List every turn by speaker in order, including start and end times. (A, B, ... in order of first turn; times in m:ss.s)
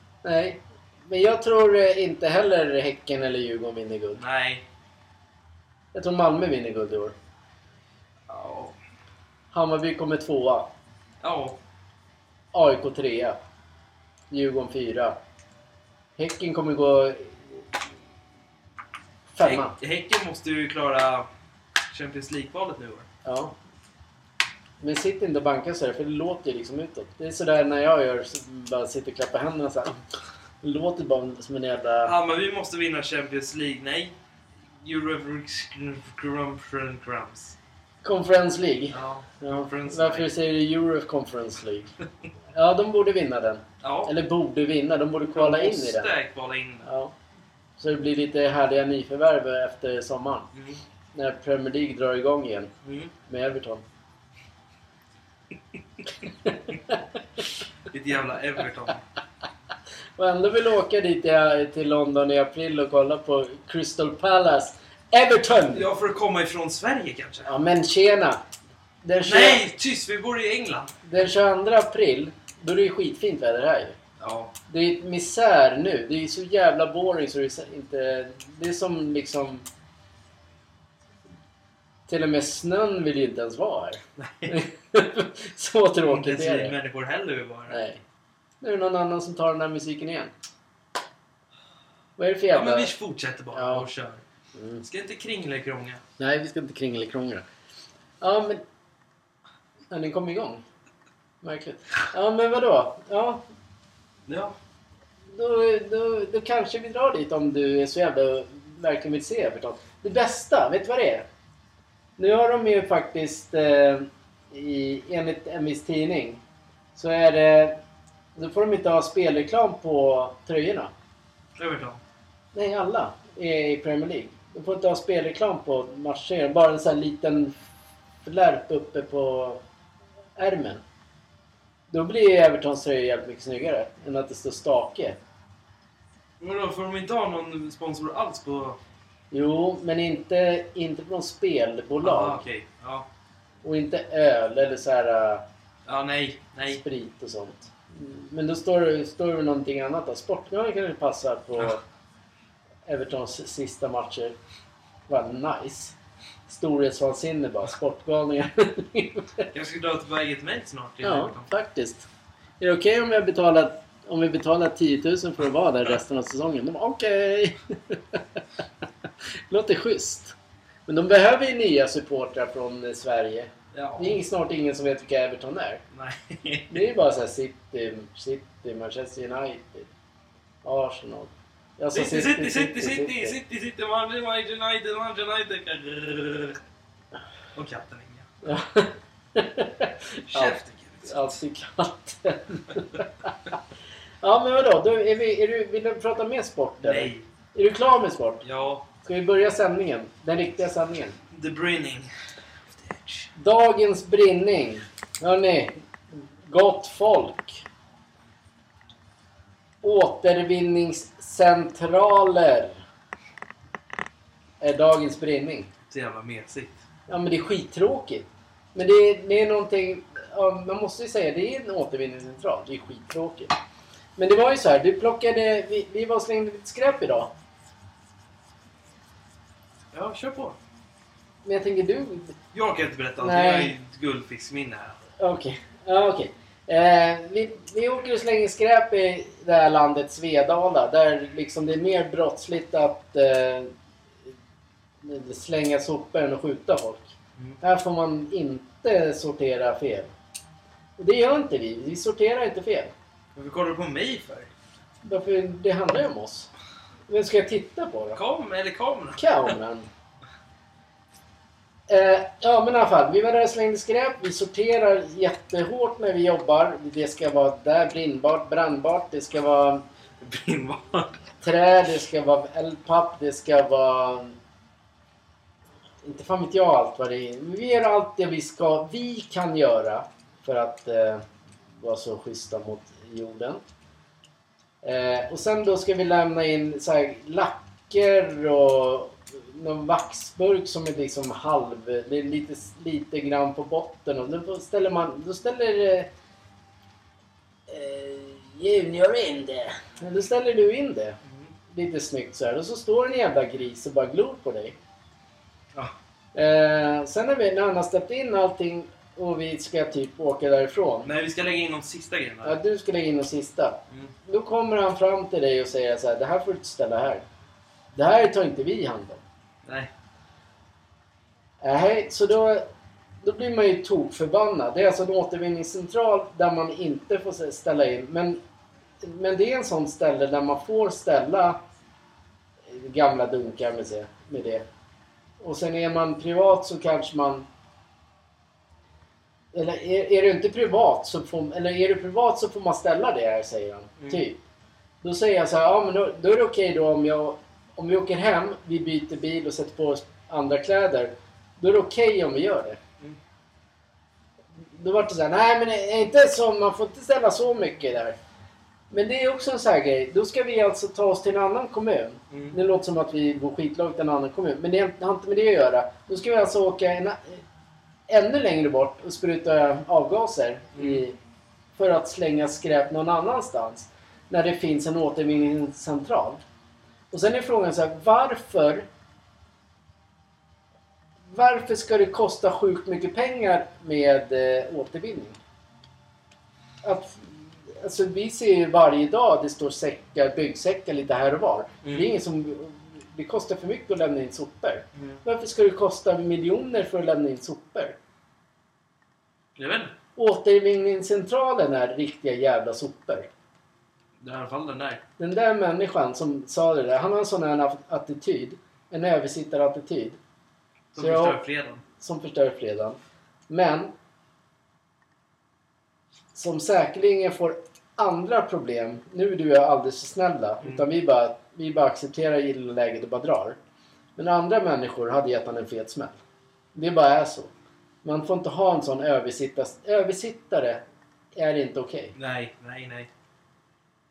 0:00.2-0:04.2 A
0:04.2-0:04.6 B
0:05.9-0:07.2 A
0:08.3-0:08.8 B
0:09.5-0:10.7 A
0:11.2-0:11.6 B
0:12.5-0:13.4 A
0:14.3-0:15.2 A
0:16.2-0:17.6 A
0:19.3-0:19.7 A
0:19.4-0:21.3 B
0:21.9-0:23.1 B
0:23.2-0:23.6 A
0:24.8-0:30.0 A
0:30.6-0:32.1 A
0:32.0-0:34.1 B
0:34.8-0:37.6 B
0:38.0-0:41.9 A
0:38.9-0:40.3 B
0:42.5-0:46.1 A
0:43.8-0:44.1 B
0:45.3-0:46.9 B
0:46.8-0:47.1 A
0:47.8-0:50.5 A
0:50.5-0:50.8 B
0:51.1-0:52.7 A
0:52.8-0:53.1 B
0:53.3-0:53.8 A
0:56.4-0:57.0 A
0:57.9-0:59.0 B
1:00.2-1:05.9 A
1:05.7-1:07.5 B
1:07.5-1:08.4 A
1:09.0-1:09.6 A
1:09.2-1:11.0 B
1:11.0-1:14.0 A
1:14.2-1:14.5 B
1:14.7-1:19.7 A
1:22.1-1:26.8 A
1:24.2-1:24.6 B
1:26.0-1:27.8 B
1:27.7-1:28.0 A
1:28.6-1:30.3 A
1:32.2-1:32.9 A
1:32.5-1:34.2 B
1:33.5-1:33.9 A
1:34.6-1:34.8 A
1:34.8-1:36.0 B
1:36.2-1:37.4 A
1:38.2-1:38.6 A
1:39.9-1:40.6 A
1:41.4-1:43.4 A
1:44.3-1:44.6 B
1:45.3-1:51.3 A
1:52.2-1:56.4 A
1:57.0-1:57.8 A
1:58.4-2:00.9 A
2:01.6-2:02.0 B
2:02.5-2:07.6 A
2:08.2-2:09.6 A
2:10.4-2:10.8 A
2:11.9-2:15.2 A
2:16.4-2:18.8 B
2:19.3-2:22.4 A
2:22.0-2:23.1 B
2:23.6-2:25.4 A
2:25.9-2:26.8 B
2:26.7-2:31.8 A
2:32.9-2:34.4 A
2:35.1-2:39.5 A
2:39.5-2:41.5 B
2:41.0-2:42.1 A
2:42.6-2:48.2 A
2:49.5-2:50.4 A
2:50.9-2:55.8 A
2:53.7-2:54.2 B
2:55.9-2:56.8 B
2:56.7-2:59.9 A
3:00.6-3:03.4 A
3:01.9-3:06.6 B
3:07.6-3:08.3 B
3:08.4-3:13.5 A
3:10.3-3:11.4 B
3:14.2-3:18.4 A
3:16.8-3:17.3 B
3:18.4-3:18.9 B
3:19.0-3:21.2 A
3:21.3-3:22.1 B
3:22.7-3:23.3 B
3:23.4-3:27.6 A
3:29.8-3:32.8 A
3:34.6-3:35.7 A
3:35.9-3:36.8 B
3:37.1-3:43.6 A
3:44.2-3:47.3 A
3:49.9-3:50.6 B
3:51.4-3:52.4 A
3:52.5-3:55.0 B
3:53.2-3:53.8 A
3:55.2-4:03.7 A
4:05.0-4:07.1 A
4:07.6-4:10.1 A
4:11.0-4:12.9 A
4:13.4-4:14.5 B
4:15.0-4:16.5 A
4:17.1-4:18.2 A
4:18.1-4:19.3 B
4:19.2-4:19.9 A
4:21.9-4:29.8 A
4:30.2-4:31.2 B
4:31.4-4:34.4 A
4:36.0-4:41.2 A
4:41.8-4:43.6 A
4:44.8-4:56.1 A
4:57.7-5:01.2 A
5:01.2-5:01.5 B
5:01.7-5:04.8 A
5:06.3-5:11.1 A
5:11.0-5:12.6 B
5:12.4-5:17.2 A
5:17.9-5:19.2 A
5:19.6-5:19.9 B
5:21.6-5:22.7 A
5:23.2-5:28.4 A
5:29.0-5:31.6 A
5:32.7-5:34.6 A
5:35.4-5:37.5 A
5:39.5-5:44.4 A
5:45.0-5:52.8 A
5:54.7-5:58.2 A
5:58.9-6:07.4 A
6:02.3-6:02.6 B
6:08.1-6:11.2 A
6:10.8-6:11.0 B
6:11.8-6:16.4 A
6:17.1-6:18.9 A
6:21.3-6:25.4 A
6:26.8-6:38.0 A
6:31.8-6:32.1 B
6:35.0-6:35.2 B
6:39.6-6:39.9 B
6:40.2-6:43.3 A
6:44.2-6:45.0 B
6:45.2-6:50.2 A
6:50.9-6:51.8 B
6:51.0-6:51.4 A
6:52.0-6:53.0 A
6:53.5-6:53.9 A
6:56.3-7:03.6 A
7:04.2-7:06.2 A
7:06.8-7:07.5 A
7:08.0-7:10.8 A
7:11.4-7:12.1 A
7:12.2-7:13.1 B